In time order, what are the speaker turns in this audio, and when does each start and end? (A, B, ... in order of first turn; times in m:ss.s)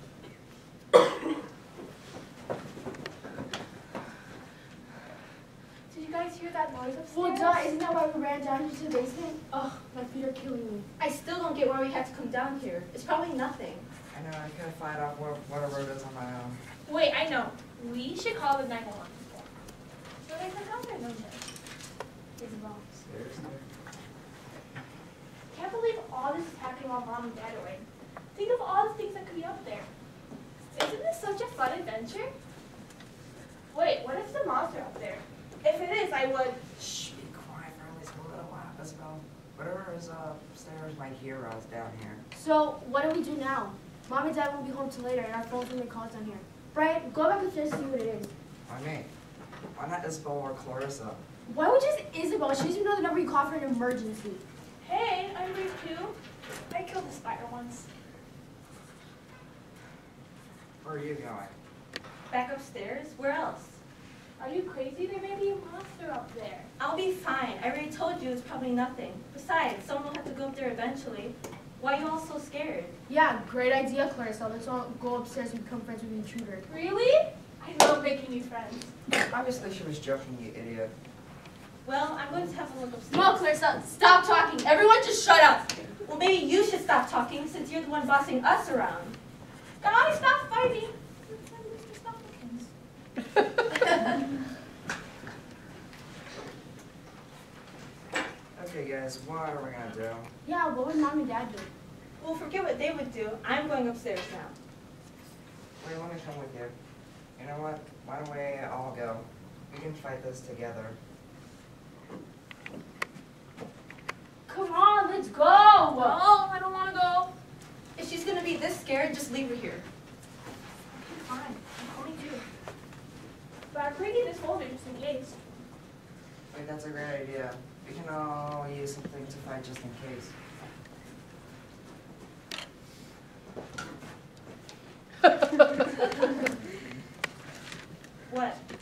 0:05.9-0:07.7 A
0:07.1-0:10.9 B
0:11.0-0:13.9 C
0:14.1-0:16.6 D
0:16.8-0:19.5 A
0:20.2-0:21.4 A
0:22.4-0:22.8 B
0:23.0-0:23.6 D
0:25.5-0:29.9 A
0:30.7-0:32.3 A
0:33.7-0:36.7 A
0:36.8-0:42.2 D
0:42.3-0:48.3 B
0:48.7-0:49.1 D
0:49.8-0:51.2 D
0:51.4-0:54.4 B
0:54.8-0:56.2 A
0:56.7-0:57.9 A
1:00.8-1:01.5 D
1:02.3-1:03.8 C
1:04.4-1:06.7 A
1:06.8-1:12.9 C
1:13.1-1:16.7 B
1:16.7-1:18.9 A
1:19.2-1:20.9 D
1:21.8-1:23.4 C
1:23.1-1:25.9 B
1:26.0-1:29.2 C
1:29.8-1:32.7 A
1:38.6-1:40.3 D
1:40.4-1:41.7 B
1:42.2-1:44.6 C
1:45.8-1:46.7 D
1:47.4-1:51.0 D
1:54.5-1:56.2 B
1:56.0-1:57.2 A
1:56.0-1:57.3 C
1:58.0-1:59.8 C
2:00.9-2:02.4 A
2:03.7-2:05.4 A
2:06.5-2:10.3 D
2:18.3-2:18.6 C